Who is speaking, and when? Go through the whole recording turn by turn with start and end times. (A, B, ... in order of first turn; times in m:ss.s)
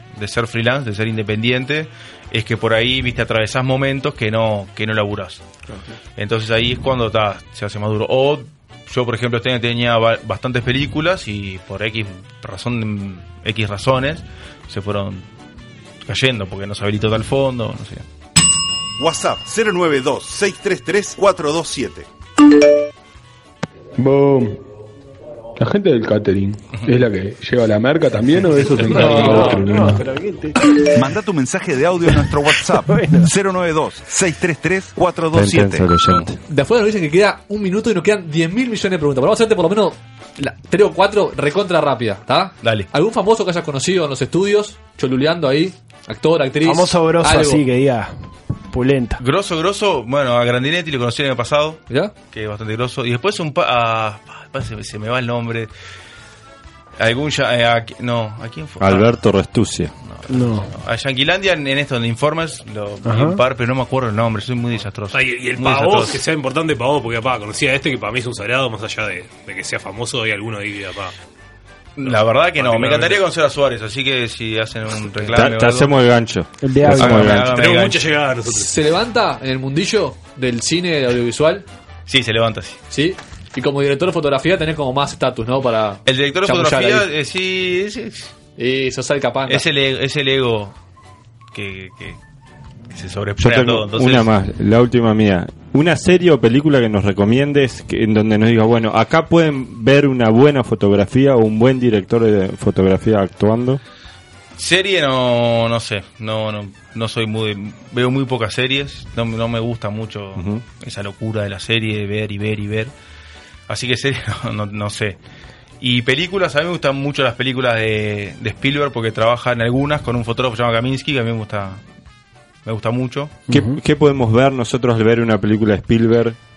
0:00.2-0:05.4 A
0:06.2-0:15.3 A
0:16.1-0:18.0 A
0:19.0-0:22.1 B
0:24.0-0:24.6 C
0:25.6-0:30.1 C
0:28.9-0:29.6 D
0:28.9-0:30.3 E
0:30.9-0:35.9 B
0:32.9-0:33.2 E
0:35.3-0:36.4 F
0:36.5-0:47.6 D
0:42.6-0:42.9 A
0:46.6-0:48.1 E
0:48.7-0:49.2 E
0:49.2-0:55.7 A
0:57.0-0:59.1 A
0:58.8-0:59.9 F
1:00.0-1:06.2 A
1:00.3-1:00.7 E
1:03.0-1:03.4 E
1:05.1-1:11.1 G
1:12.0-1:15.9 A
1:12.0-1:13.2 G
1:15.3-1:17.6 F
1:16.6-1:17.2 E
1:16.9-1:18.1 A
1:17.4-1:18.7 G
1:18.5-1:21.6 D
1:22.1-1:22.8 A
1:22.9-1:27.0 D
1:26.0-1:28.3 A
1:28.6-1:29.6 D
1:29.4-1:30.7 A
1:31.5-1:32.2 A
1:32.9-1:34.3 A
1:33.4-1:43.8 F
1:44.6-1:52.9 A
1:50.4-1:50.6 F
1:53.7-1:55.2 A
1:55.8-2:01.8 A
2:02.6-2:03.4 A
2:03.5-2:06.4 F
2:03.5-2:03.8 E